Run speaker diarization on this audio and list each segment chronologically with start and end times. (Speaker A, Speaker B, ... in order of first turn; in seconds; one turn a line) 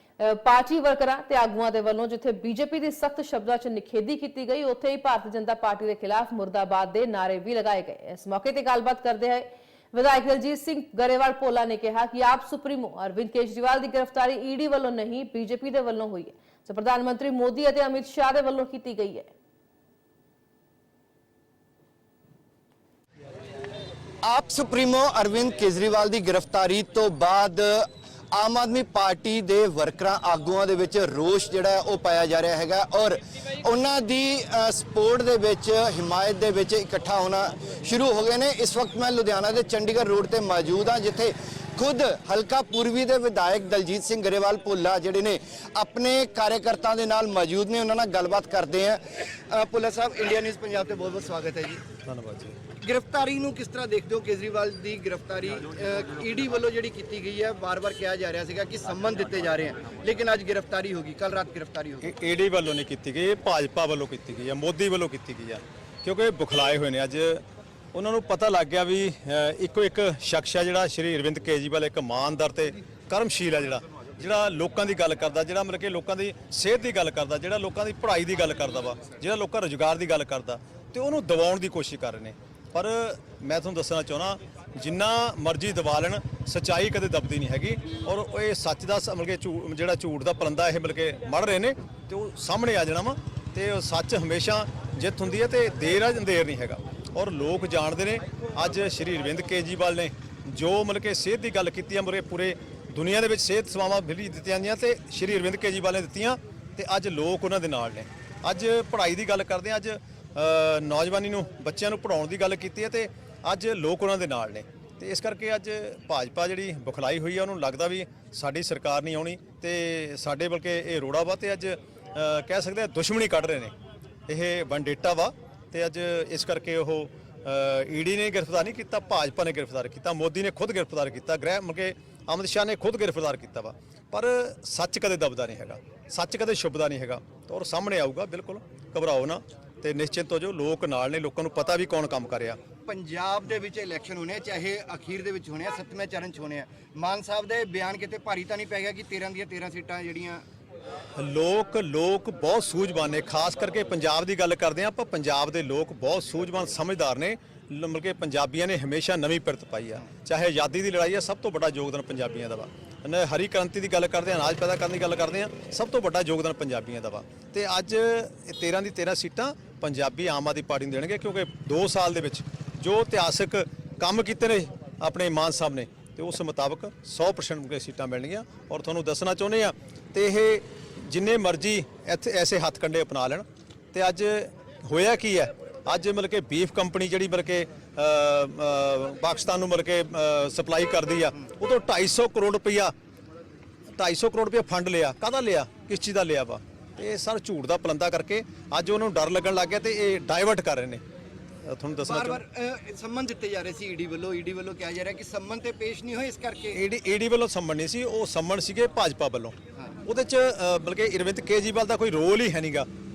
Speaker A: 0.2-19.3
Speaker B: 24.2-51.8
Speaker C: 52.0-52.6
Speaker B: 52.8-62.1
Speaker C: 62.0-67.4
Speaker C: 67.9-123.7
Speaker C: 124.3-142.6
Speaker B: 142.8-150.4
Speaker C: 151.2-192.9
Speaker C: 193.9-201.0
Speaker C: 201.6-202.4
Speaker B: 202.0-206.8
Speaker C: 206.7-212.9